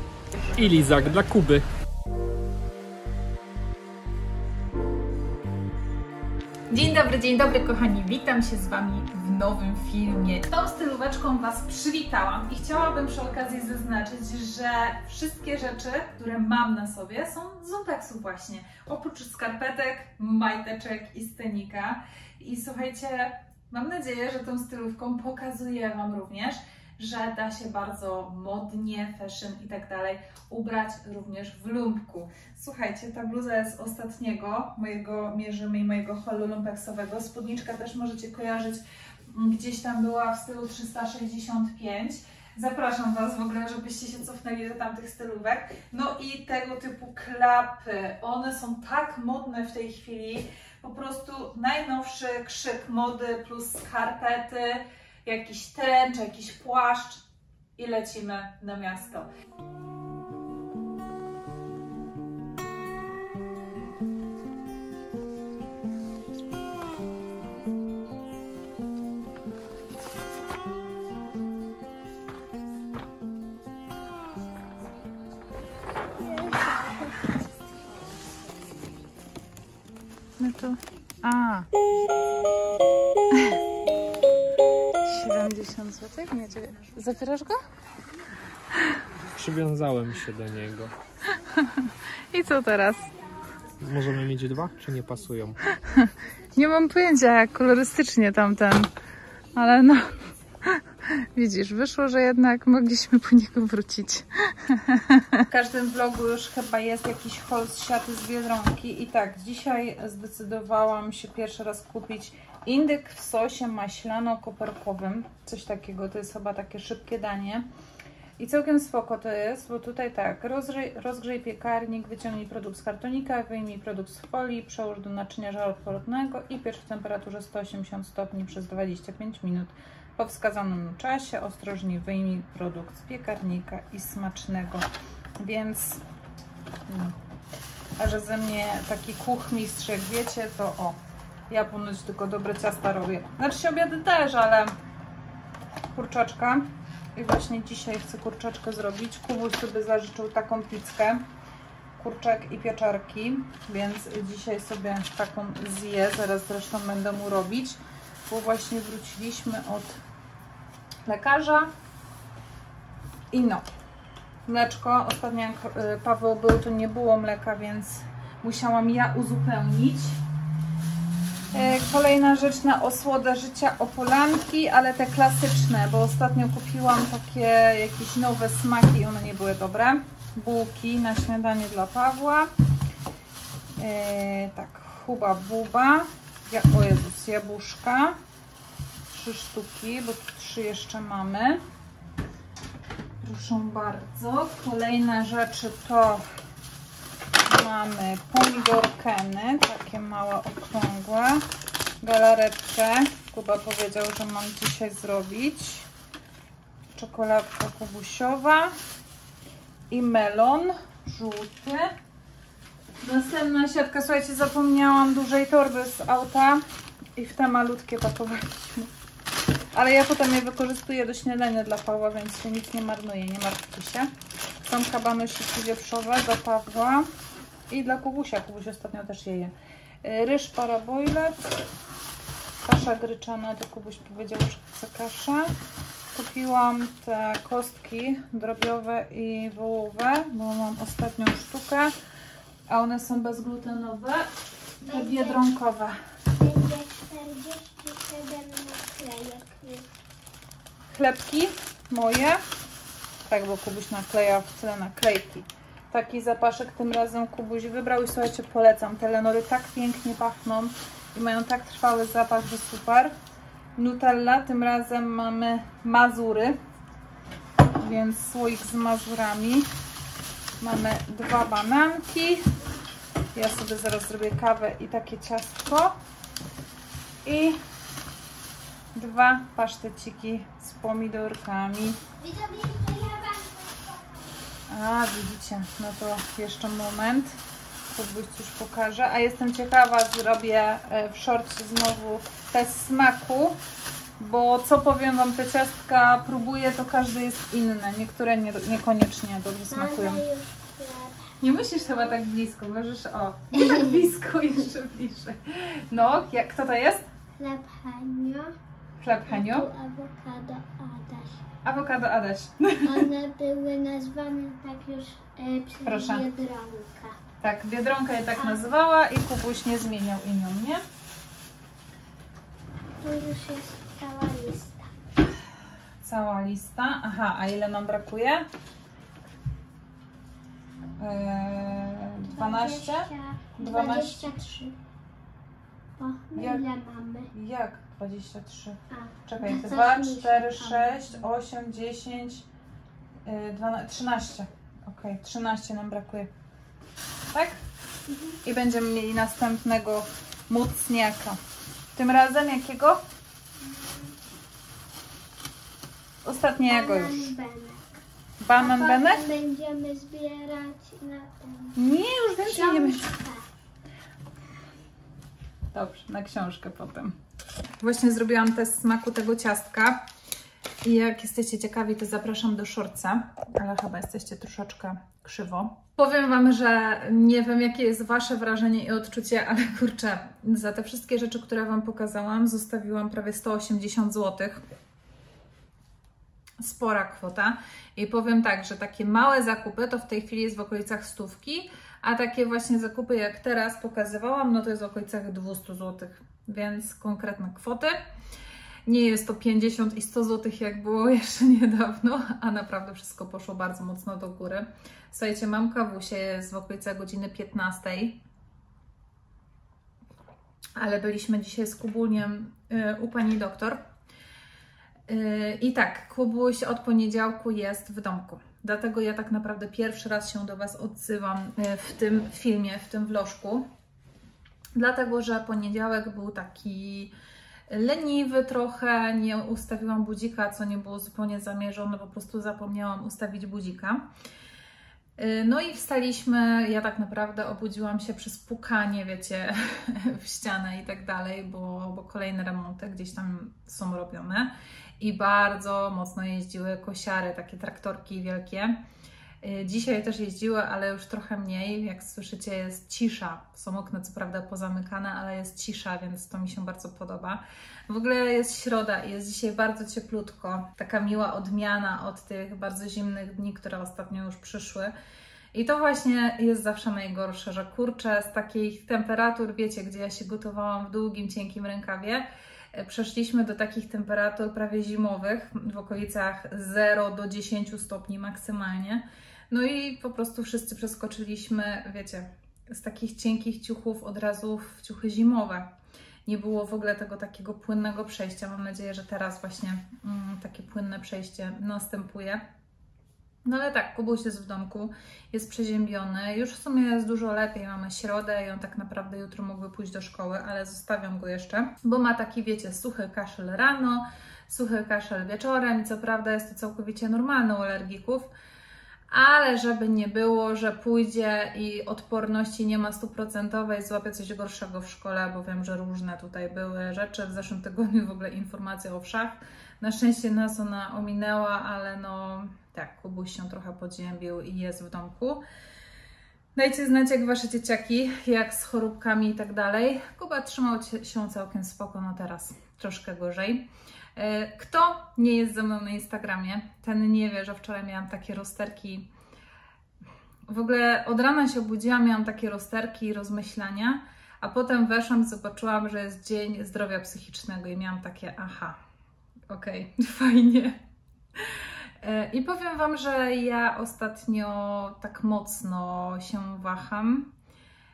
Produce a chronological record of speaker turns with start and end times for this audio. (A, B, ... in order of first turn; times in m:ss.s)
0:00.6-0:01.6 A
0:06.7-0:57.2 B
0:57.8-0:59.3 B
1:16.5-1:16.9 C
1:20.4-1:21.7 B
1:23.3-1:23.6 B
1:25.0-1:27.6 B
1:29.3-1:30.9 A
1:31.5-1:33.1 B
1:33.8-1:35.6 A
1:35.8-1:38.9 B
1:39.5-1:57.6 B
1:58.4-2:14.9 B
2:15.4-2:16.0 B
2:16.9-2:17.2 B
2:18.0-2:21.0 B
2:21.5-2:24.7 B
2:25.9-2:31.2 B
2:32.0-2:40.0 B
2:41.0-2:41.7 B
2:43.3-2:43.6 B
2:44.5-2:50.2 B
2:51.5-3:02.5 B
3:03.8-3:08.2 B
3:09.1-3:11.6 B
3:13.2-3:16.2 B
3:17.5-3:21.4 B
3:22.0-3:25.9 B
3:26.9-3:28.7 B
3:29.9-3:31.9 B
3:33.0-3:36.6 B
3:37.2-3:38.9 B
3:39.7-3:44.1 B
3:44.6-3:47.1 B
3:47.7-3:51.3 B
3:52.6-3:55.5 B
3:56.1-4:01.9 B
4:02.7-4:04.3 B
4:04.8-4:06.0 B
4:04.8-4:05.4 C
4:06.3-4:09.9 C
4:10.9-4:12.4 B
4:13.3-4:23.1 B
4:23.8-4:26.6 B
4:27.8-4:29.7 B
4:30.6-4:32.5 B
4:33.3-4:35.9 B
4:37.2-4:37.6 B
4:38.9-4:42.0 B
4:42.2-4:44.3 C
4:44.7-4:47.4 B
4:47.9-4:53.6 B
4:54.2-5:00.2 B
4:59.7-5:02.2 C
5:01.4-5:07.0 B
5:03.5-5:04.0 C
5:07.4-5:08.5 C
5:09.0-5:09.7 B
5:09.3-5:11.4 C
5:11.6-5:13.1 B
5:12.8-5:17.2 C
5:15.8-5:16.3 B
5:17.4-5:20.8 B
5:18.4-5:18.6 C
5:23.0-5:24.9 C
5:26.0-5:28.4 B
5:31.0-5:34.3 B
5:32.3-5:34.8 C
5:36.0-5:37.3 C
5:36.3-5:36.6 B
5:37.3-5:42.4 B
5:38.9-5:41.2 C
5:43.2-5:46.3 B
5:47.3-5:47.6 B
5:48.1-5:48.4 C
5:48.4-5:51.4 B
5:51.9-5:53.0 B
5:53.6-5:54.2 C
5:56.2-5:57.3 B
5:56.6-5:57.9 C
5:58.4-5:59.2 B
5:58.6-6:01.8 C
6:01.7-6:03.1 B
6:02.4-6:03.5 C
6:05.7-6:07.1 B
6:07.8-6:10.0 B
6:10.8-6:24.6 B
6:26.6-6:38.0 B
6:38.8-6:48.2 B
6:50.8-6:53.8 B
6:55.1-7:03.6 B
7:04.8-7:07.1 B
7:07.7-7:14.1 B
7:15.2-7:28.8 B
7:29.4-7:44.9 B
7:45.5-8:05.7 B
8:06.2-8:12.4 B
8:13.4-8:28.3 B
8:29.1-8:45.4 B
8:46.5-8:59.1 B
9:00.5-9:08.8 B
9:09.5-9:10.8 B
9:11.4-9:17.3 B